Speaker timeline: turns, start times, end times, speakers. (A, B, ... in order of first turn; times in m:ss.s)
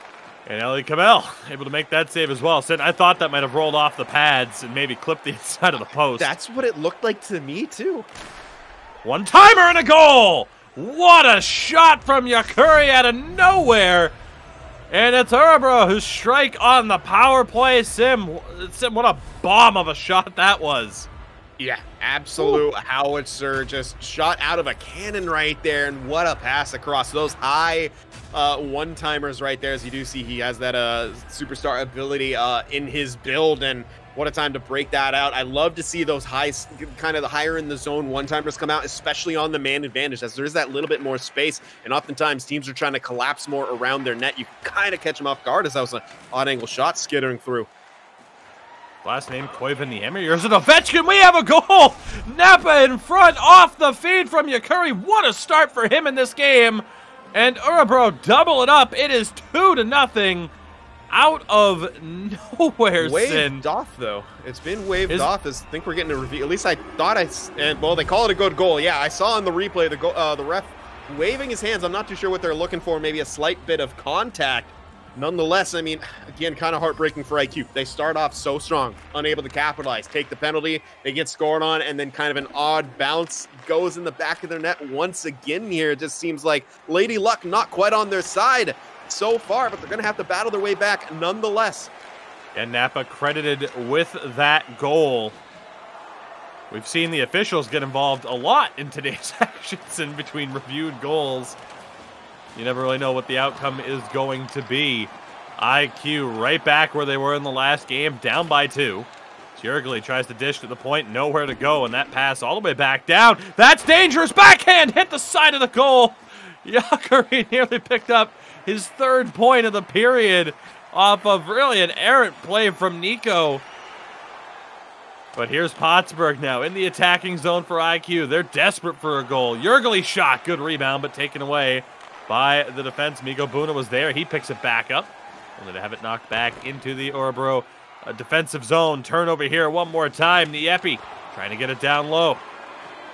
0:00.5-0:06.3 A
0:06.2-0:08.1 B
0:09.0-0:14.2 A
0:14.9-0:21.1 A
0:21.6-0:47.7 B
0:49.0-1:00.5 A
1:01.1-1:03.6 A
1:03.0-1:31.9 B
1:32.6-1:35.4 A
1:36.7-1:41.6 A
1:42.6-2:03.6 A
2:05.4-2:22.4 A